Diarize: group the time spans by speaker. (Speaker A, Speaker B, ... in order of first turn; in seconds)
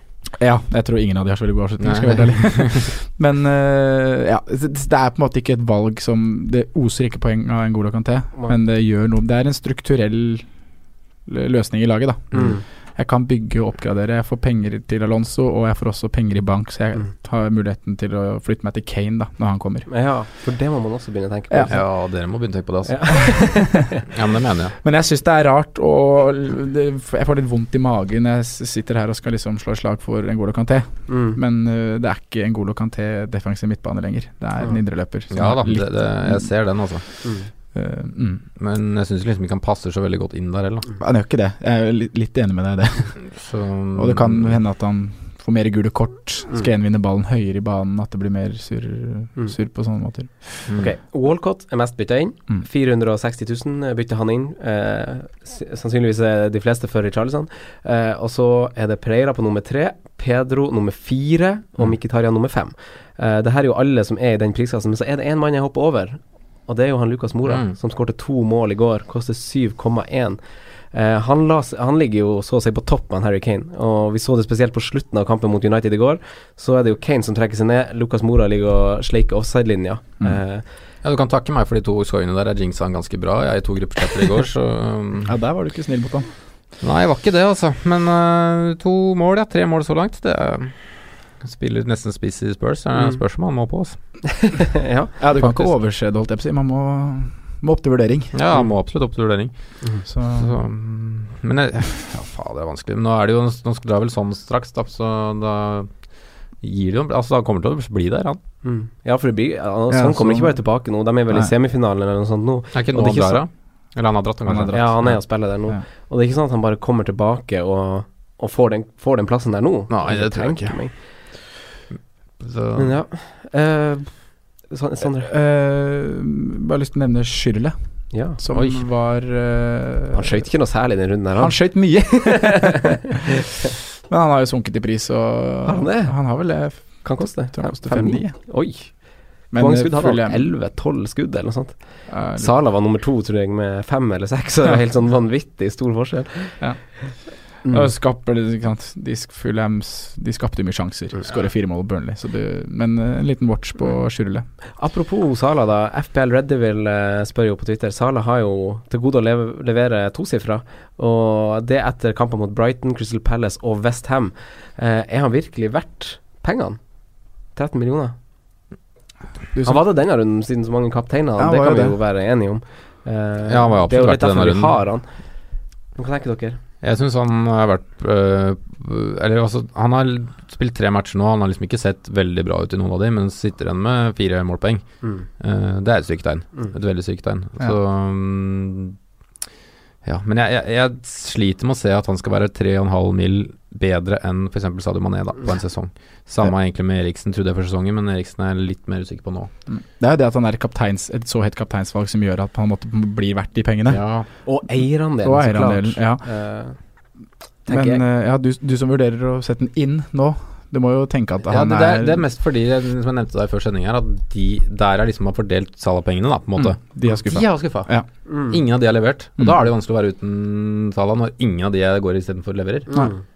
Speaker A: 0.4-10.5, 11.3-19.9, 24.8-36.5, 37.7-38.4, 41.0-43.3, 43.9-50.6, 85.2-86.3, 95.2-98.5, 100.0-100.5, 109.9-110.7, 114.5-115.8, 125.2-130.5, 131.4-132.9, 134.1-138.5, 139.5-140.5, 142.1-142.5, 146.6-154.4, 169.5-169.8, 171.4-172.0, 199.7-204.0, 205.2-206.2, 207.7-212.2, 216.6-218.1
Speaker B: 1.8-2.9, 21.7-24.8, 35.3-37.0, 38.6-40.9, 43.2-44.6, 67.5-67.7, 81.0-85.3, 86.8-94.0, 98.3-108.4, 112.7-115.1, 119.9-121.1, 122.4-122.9, 128.5-128.8, 173.5-174.8, 176.8-189.0, 190.0-199.5, 203.9-204.3, 211.5-217.9, 218.5-223.0
Speaker C: 12.3-12.6, 19.9-22.0, 22.9-24.0, 31.1-31.4, 37.2-37.5, 50.7-80.6, 94.4-95.7, 108.6-113.4, 114.7-121.0, 122.7-125.3, 128.1-128.4, 130.1-132.6, 133.3-133.7, 135.6-146.9, 147.6-147.9, 154.8-166.8, 167.5-168.1, 169.6-175.1, 175.9-176.6, 185.0-185.3, 204.4-206.8, 207.7-208.0, 218.2-218.6, 222.9-223.2